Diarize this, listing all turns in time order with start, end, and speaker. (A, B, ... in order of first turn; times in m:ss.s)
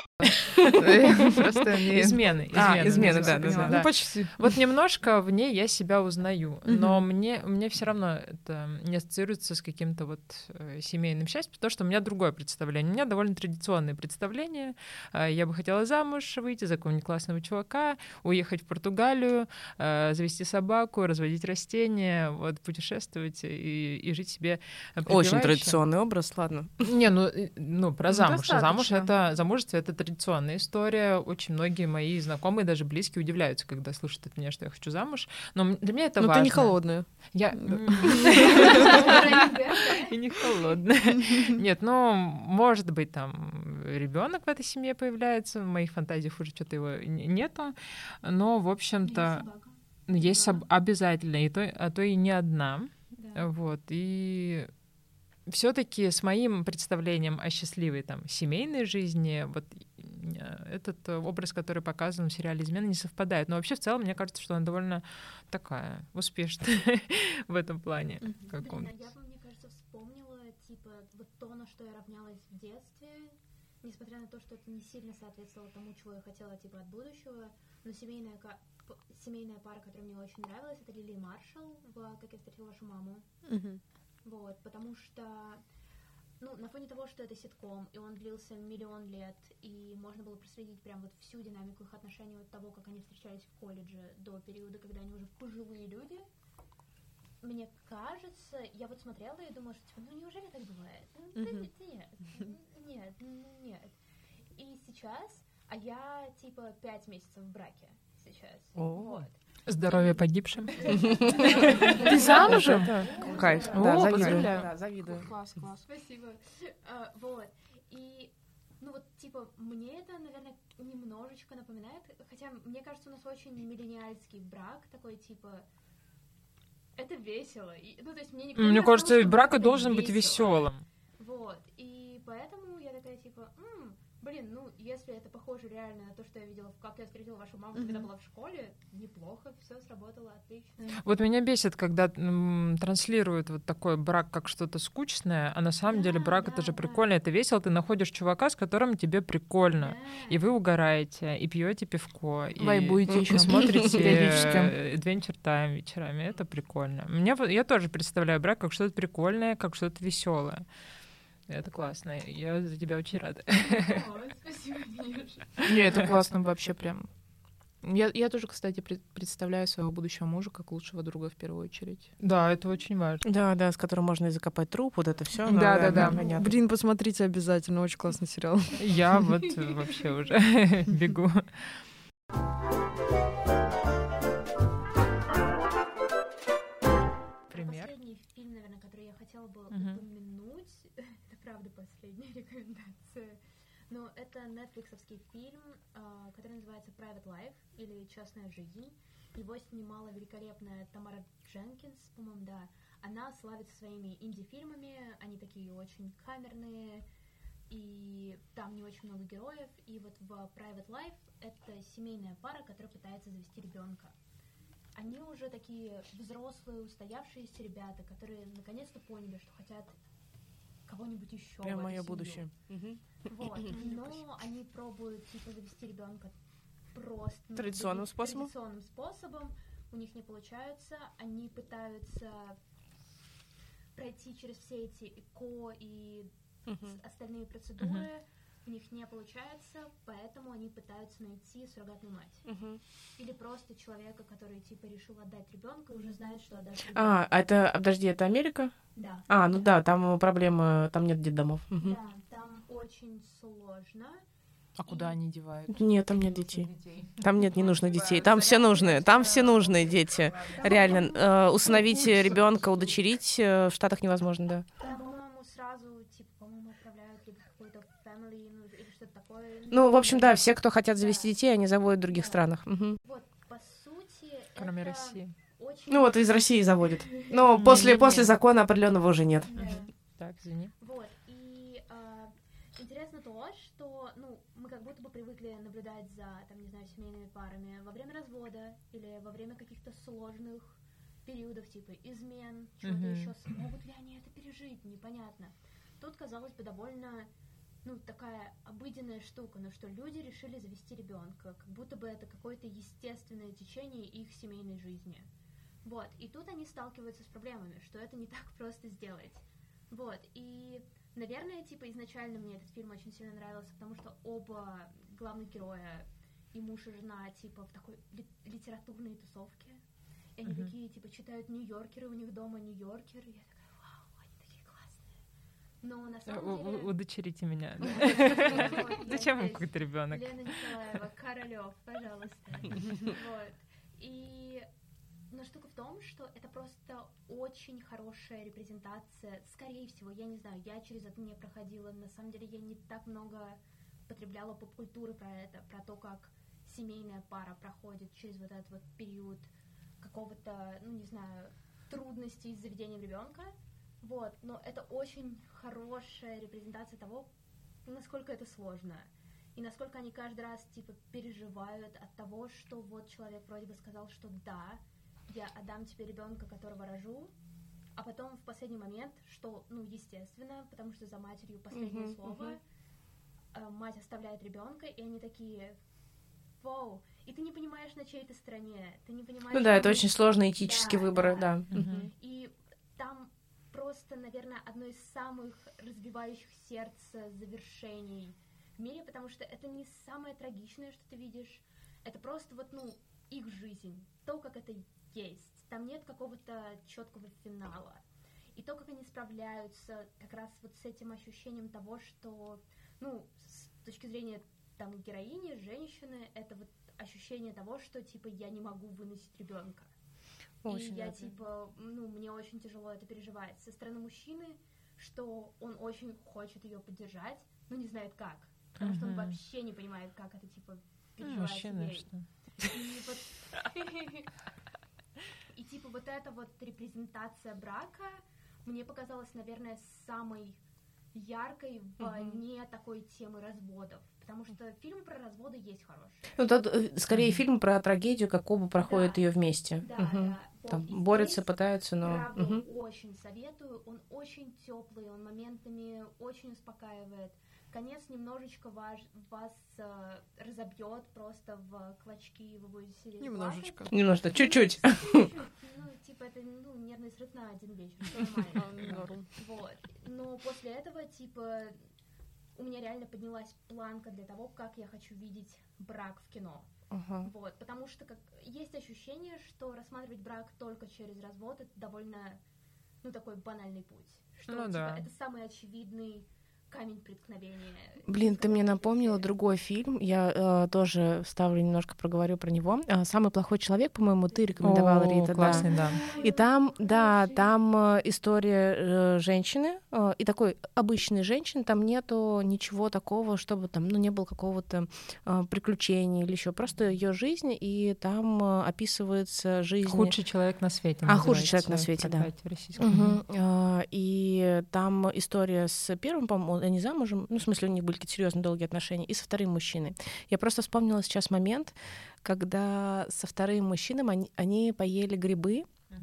0:00.2-0:03.6 A
0:00.6-0:01.5 B
0:01.9-0:25.8 C
0:02.5-0:03.8 B
0:03.4-0:04.5 D
0:06.7-0:07.0 D
0:25.1-0:26.9 B
0:26.8-0:49.5 C
0:28.1-0:29.1 A
0:36.2-0:39.0 D
0:38.3-0:40.1 E
0:49.0-0:50.6 E
0:50.1-0:54.7 C
0:53.2-0:53.5 E
0:55.5-1:08.9 C
1:08.5-1:23.3 E
1:23.5-1:23.8 D
1:24.2-1:25.6 E
1:26.4-1:36.2 E
1:37.4-1:44.0 E
1:41.4-1:41.6 D
1:44.5-1:54.0 E
1:48.8-1:49.2 B
1:49.7-1:53.1 C
1:51.0-1:51.4 B
1:51.5-1:55.7 A
1:52.0-1:55.3 B
1:53.7-1:54.5 C
1:55.6-2:05.7 E
2:07.0-2:21.0 E
2:08.6-2:10.8 C
2:17.8-2:18.1 D
2:21.0-2:40.6 C
2:25.9-2:27.1 E
2:29.8-2:30.4 E
2:32.6-2:34.8 A
2:33.1-2:34.5 B
2:41.5-2:44.0 C
2:43.7-2:45.7 E
2:45.6-2:47.1 A
2:45.7-2:46.1 B
2:47.8-2:52.1 A
2:52.2-2:53.2 C
2:53.2-2:56.5 B
2:55.5-2:56.2 A
2:55.8-2:56.2 C
2:56.0-2:58.8 D
2:58.8-3:01.8 C
3:07.5-3:27.0 E
3:07.5-3:07.9 C
3:09.7-3:10.0 C
3:27.7-3:34.1 E
3:35.0-3:40.0 E
3:40.9-3:42.5 E
3:41.6-3:43.8 B
3:43.2-3:46.3 E
3:46.9-3:52.6 E
3:47.6-3:48.5 B
3:54.0-4:02.5 E
3:56.7-3:57.0 B
3:57.8-3:58.1 C
4:02.5-4:02.8 B
4:03.2-4:07.3 E
4:06.9-4:12.0 B
4:09.0-4:09.7 E
4:11.8-4:14.2 E
4:14.8-4:22.6 A
4:14.8-4:15.2 E
4:15.7-4:24.7 B
4:20.6-4:21.2 E
4:24.8-4:31.4 E
4:29.7-4:33.0 B
4:32.1-4:32.4 E
4:33.0-4:36.4 E
4:34.6-4:35.3 C
4:35.9-4:39.8 B
4:37.0-4:38.2 E
4:37.6-4:38.3 C
4:39.5-4:39.9 E
4:39.6-4:40.7 C
4:40.8-4:57.3 E
4:52.8-4:53.3 C
4:57.8-5:05.3 E
5:05.8-5:19.8 E
5:20.4-5:25.1 E
5:20.5-5:20.7 C
5:25.8-5:26.9 E
5:26.3-5:30.8 C
5:27.8-5:34.6 E
5:35.3-5:57.3 E
5:57.8-6:07.3 E
6:08.0-6:12.6 E
6:11.7-6:12.6 B
6:13.5-6:15.8 E
6:16.6-6:38.0 E
6:19.5-6:22.1 B
6:21.7-6:22.1 C
6:38.6-6:49.9 E
6:50.6-6:51.4 B
6:50.7-7:04.3 E
6:58.8-6:59.4 C
7:01.2-7:02.3 C
7:05.5-7:10.6 E
7:11.1-7:16.3 E
7:12.0-7:12.4 B
7:16.4-7:22.6 B
7:17.1-7:17.4 C
7:18.8-7:19.2 E
7:19.8-7:41.8 E
7:33.2-7:33.9 D
7:33.9-7:35.3 B
7:38.7-7:39.1 C
7:38.8-7:39.1 A
7:42.6-7:46.7 E
7:46.9-7:47.3 B
7:47.2-7:52.4 E
7:53.0-7:59.2 E
7:54.5-7:55.1 C
7:58.1-8:20.2 B
8:04.6-8:06.0 C
8:05.4-8:07.5 E
8:19.8-8:23.2 C
8:21.1-8:35.7 B
8:21.1-8:21.7 E